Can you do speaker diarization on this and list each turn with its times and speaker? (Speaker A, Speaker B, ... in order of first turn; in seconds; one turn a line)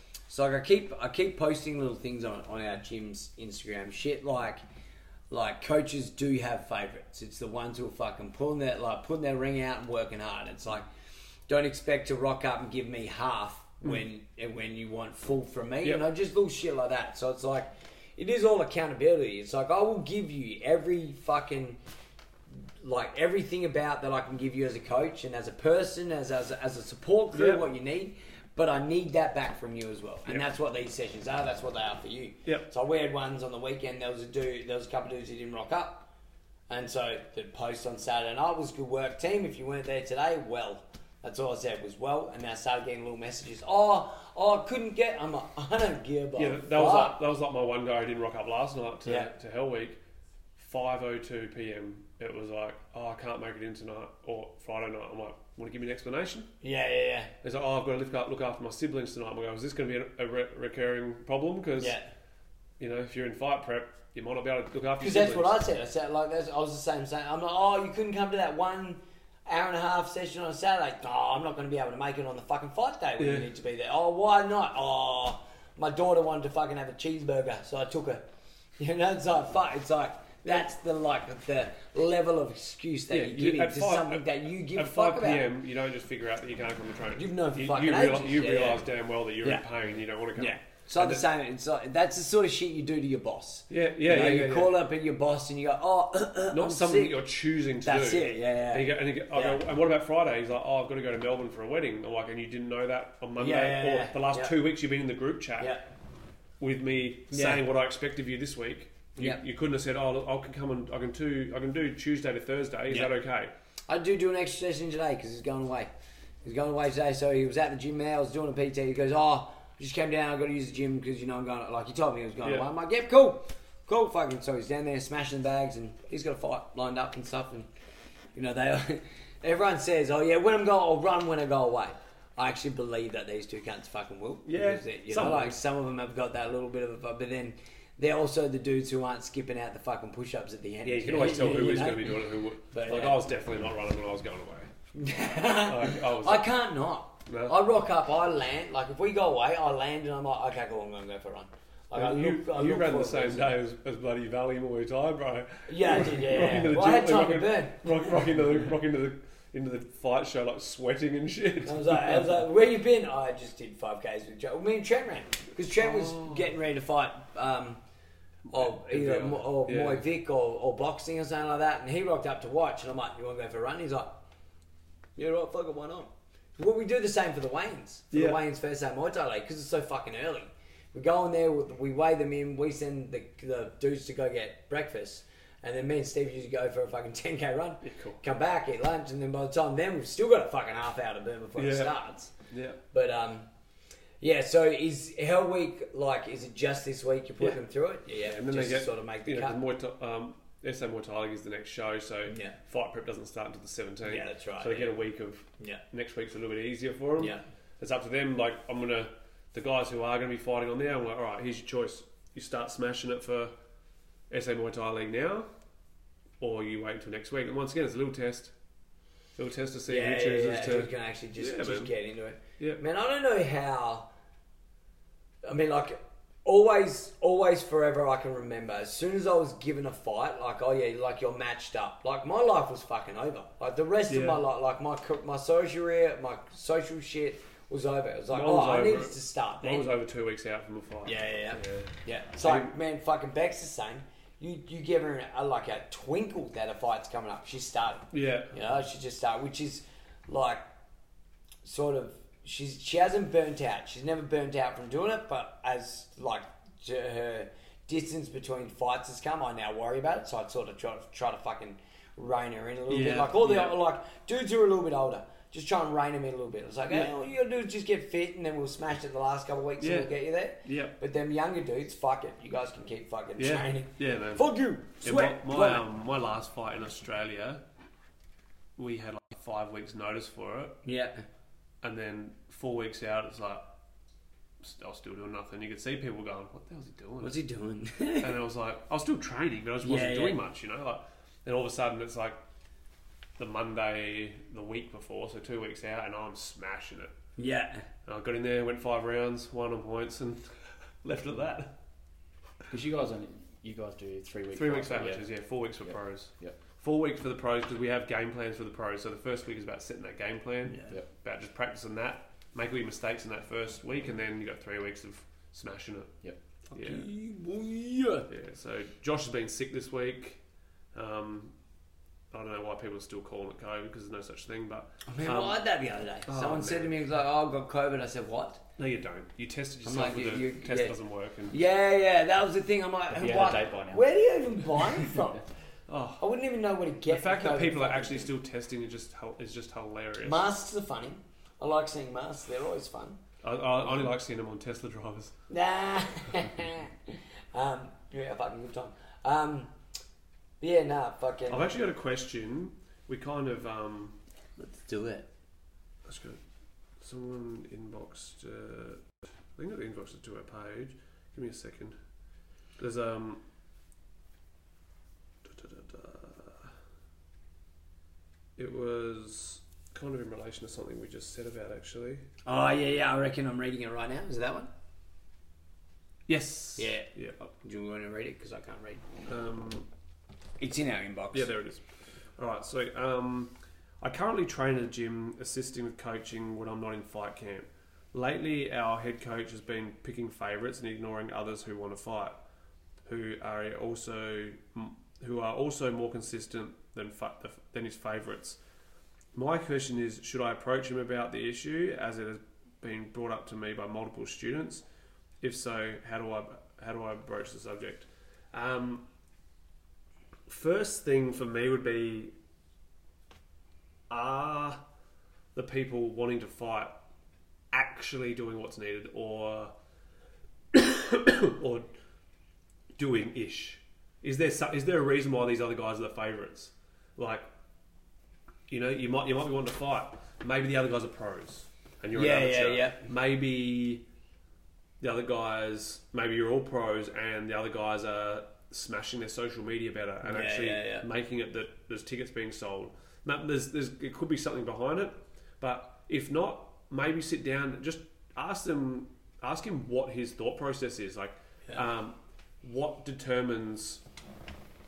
Speaker A: 0.3-4.6
Speaker A: 5.3-10.9
Speaker A: 11.5-21.8
Speaker A: 22.8-36.1
Speaker B: 27.3-27.6
Speaker A: 36.7-47.2
Speaker B: 46.4-50.0
Speaker A: 49.0-49.3
Speaker B: 50.6-56.5
Speaker A: 56.6-57.3
Speaker B: 57.4-62.0
Speaker A: 61.8-62.1
Speaker B: 62.8-65.6
Speaker A: 65.0-78.2
Speaker B: 73.2-73.5
Speaker A: 78.8-85.5
Speaker B: 83.1-91.2
Speaker A: 87.2-88.8
Speaker A: 90.3-97.2
Speaker B: 93.7-94.8
Speaker B: 96.5-105.8
Speaker A: 97.8-99.6
Speaker A: 103.4-104.5
Speaker A: 105.6-105.8
Speaker B: 106.6-113.5
Speaker A: 107.3-107.6
Speaker A: 113.9-115.9
Speaker A: 116.4-127.7
Speaker A: 128.3-143.2
Speaker B: 134.4-135.6
Speaker B: 140.8-144.7
Speaker A: 144.9-153.5
Speaker B: 145.6-146.5
Speaker B: 147.3-147.6
Speaker B: 151.9-162.4
Speaker A: 155.7-158.2
Speaker A: 161.6-167.8
Speaker B: 165.8-166.5
Speaker B: 168.5-170.0
Speaker A: 168.5-174.2
Speaker A: 175.2-192.3
Speaker B: 178.1-178.4
Speaker B: 187.8-188.2
Speaker B: 191.6-191.9
Speaker B: 192.5-192.8
Speaker A: 192.9-193.5
Speaker A: 194.2-199.6
Speaker B: 198.2-213.5
Speaker A: 202.3-202.6
Speaker A: 204.0-204.9
Speaker A: 207.2-207.4
Speaker B: 214.3-215.5
Speaker B: 216.4-218.5
Speaker B: 219.3-221.9
Speaker A: 219.9-224.1
Speaker A: 225.4-239.9
Speaker B: 234.1-234.4
Speaker B: 238.3-242.7
Speaker A: 241.0-250.6
Speaker B: 248.1-248.5
Speaker A: 251.6-275.8
Speaker B: 262.9-263.8
Speaker B: 269.8-271.0
Speaker B: 273.4-274.4
Speaker B: 275.0-277.6
Speaker B: 278.8-280.8
Speaker A: 280.8-281.2
Speaker B: 281.8-283.6
Speaker B: 284.6-287.4
Speaker A: 287.2-288.4
Speaker B: 288.2-292.4
Speaker A: 289.8-290.4
Speaker B: 293.4-297.1
Speaker A: 297.4-297.9
Speaker B: 298.1-301.7
Speaker C: 302.7-305.3
Speaker B: 304.5-316.2
Speaker C: 305.8-306.6
Speaker A: 310.6-310.9
Speaker A: 316.7-318.3
Speaker B: 316.7-317.1
Speaker B: 318.3-320.4
Speaker B: 320.9-321.5
Speaker B: 322.3-325.6
Speaker A: 325.1-328.6
Speaker B: 326.3-326.9
Speaker B: 328.8-331.6
Speaker A: 329.8-330.9
Speaker A: 331.5-335.4
Speaker C: 333.1-334.0
Speaker B: 335.9-336.3
Speaker A: 336.2-338.3
Speaker B: 337.1-340.5
Speaker A: 340.2-343.2
Speaker B: 343.4-345.3
Speaker A: 345.5-349.7
Speaker A: 350.6-351.7
Speaker B: 351.5-354.2
Speaker A: 354.6-355.3
Speaker B: 356.0-356.4
Speaker B: 357.0-361.9
Speaker B: 362.8-363.4
Speaker B: 365.4-366.7
Speaker B: 368.6-372.2
Speaker A: 372.4-374.7
Speaker B: 376.3-377.4
Speaker A: 376.8-379.0
Speaker B: 379.3-379.9
Speaker A: 380.6-381.5
Speaker B: 381.3-381.8
Speaker B: 382.4-392.3
Speaker B: 393.0-398.6
Speaker B: 399.3-404.8
Speaker B: 405.4-409.0
Speaker B: 410.5-412.3
Speaker B: 414.1-414.8
Speaker B: 415.5-416.9
Speaker B: 417.7-419.7
Speaker B: 420.7-421.9
Speaker B: 422.9-427.4
Speaker B: 428.7-434.0
Speaker A: 432.1-433.1
Speaker B: 435.0-454.0
Speaker A: 440.2-441.1